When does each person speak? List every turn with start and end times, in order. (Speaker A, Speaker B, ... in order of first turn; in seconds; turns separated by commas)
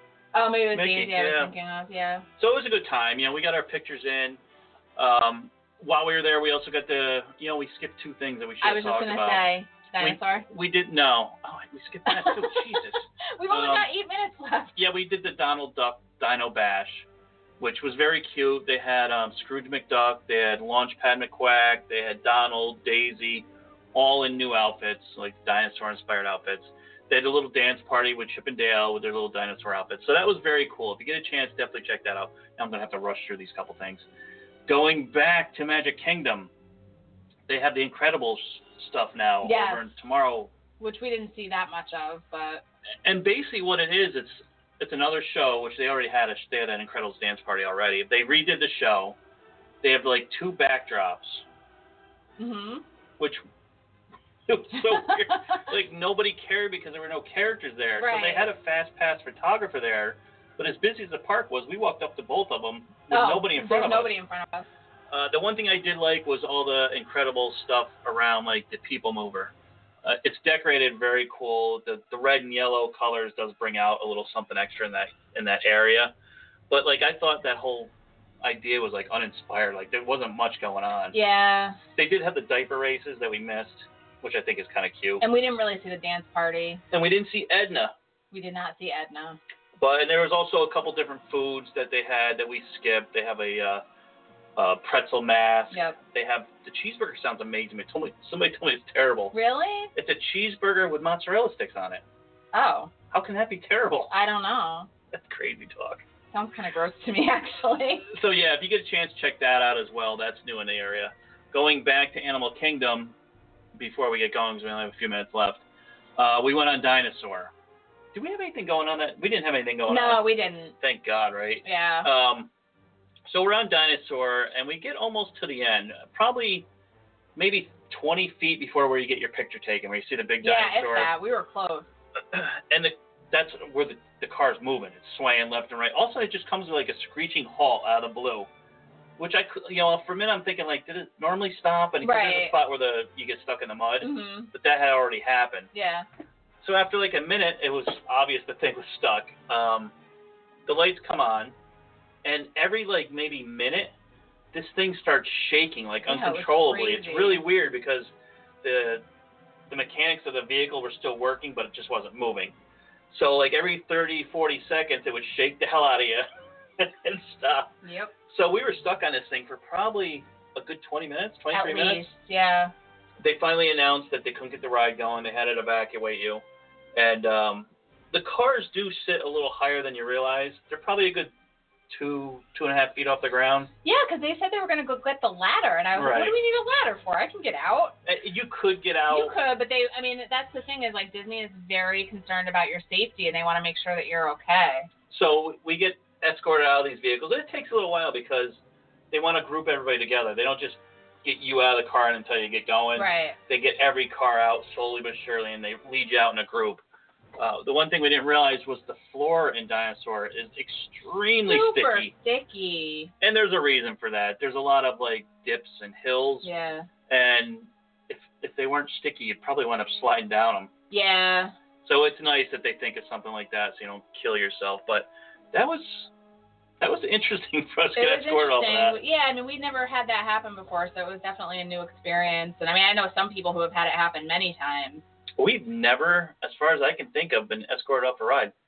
Speaker A: 0.3-2.2, Speaker B: 0.7-1.5, Speaker B: 2.4-4.4, Speaker B: 5.0-9.5, Speaker A: 8.6-10.4, Speaker B: 10.0-13.9, Speaker A: 12.1-14.8, Speaker B: 14.8-17.1, Speaker B: 17.6-34.0, Speaker B: 34.7-36.5, Speaker B: 37.5-40.5, Speaker A: 39.4-39.9, Speaker A: 40.8-42.6, Speaker B: 43.0-49.1, Speaker B: 49.8-51.4, Speaker A: 52.4-52.8, Speaker B: 54.5-64.1, Speaker A: 54.9-55.6, Speaker A: 58.0-58.5, Speaker A: 63.1-64.7, Speaker B: 65.1-69.5, Speaker B: 70.0-76.1, Speaker B: 76.7-81.2, Speaker A: 81.1-81.8, Speaker B: 81.9-85.2, Speaker A: 85.2-86.8, Speaker B: 86.9-87.9, Speaker A: 88.3-89.4, Speaker B: 89.8-93.8, Speaker B: 94.5-99.3, Speaker A: 95.7-96.0, Speaker A: 99.3-99.9, Speaker B: 99.9-102.0, Speaker A: 102.5-102.9, Speaker B: 103.1-104.1, Speaker A: 104.1-104.9, Speaker B: 105.1-106.0, Speaker A: 106.3-108.1, Speaker B: 108.1-113.1, Speaker B: 113.7-115.6, Speaker B: 116.2-117.5, Speaker B: 118.1-120.2, Speaker A: 119.8-120.7, Speaker B: 120.8-122.5, Speaker A: 121.6-122.1, Speaker B: 123.2-126.7, Speaker B: 127.3-131.1, Speaker A: 130.4-131.9, Speaker B: 132.3-138.5, Speaker B: 139.2-145.7, Speaker A: 142.0-142.6, Speaker A: 144.0-144.5, Speaker A: 145.7-146.1, Speaker B: 146.6-149.9, Speaker B: 150.7-151.5, Speaker B: 152.2-153.9, Speaker B: 154.5-158.1, Speaker A: 156.1-157.4, Speaker B: 158.6-159.0, Speaker B: 159.7-162.5, Speaker B: 163.1-166.3, Speaker B: 166.8-167.7, Speaker A: 167.8-168.1, Speaker B: 168.3-172.0, Speaker A: 171.5-172.7, Speaker B: 173.2-176.4, Speaker B: 176.9-181.3, Speaker B: 181.9-183.7, Speaker A: 183.8-187.9, Speaker B: 185.9-186.3, Speaker B: 188.1-189.4, Speaker A: 189.1-194.9, Speaker B: 195.1-198.6, Speaker B: 199.1-206.8, Speaker A: 202.9-203.4, Speaker B: 207.4-212.1, Speaker A: 211.4-213.1, Speaker B: 213.2-216.5, Speaker A: 216.4-216.9, Speaker B: 217.1-220.7, Speaker A: 220.9-221.5, Speaker B: 221.8-226.1, Speaker B: 226.8-229.0, Speaker A: 227.9-235.0, Speaker B: 235.4-238.5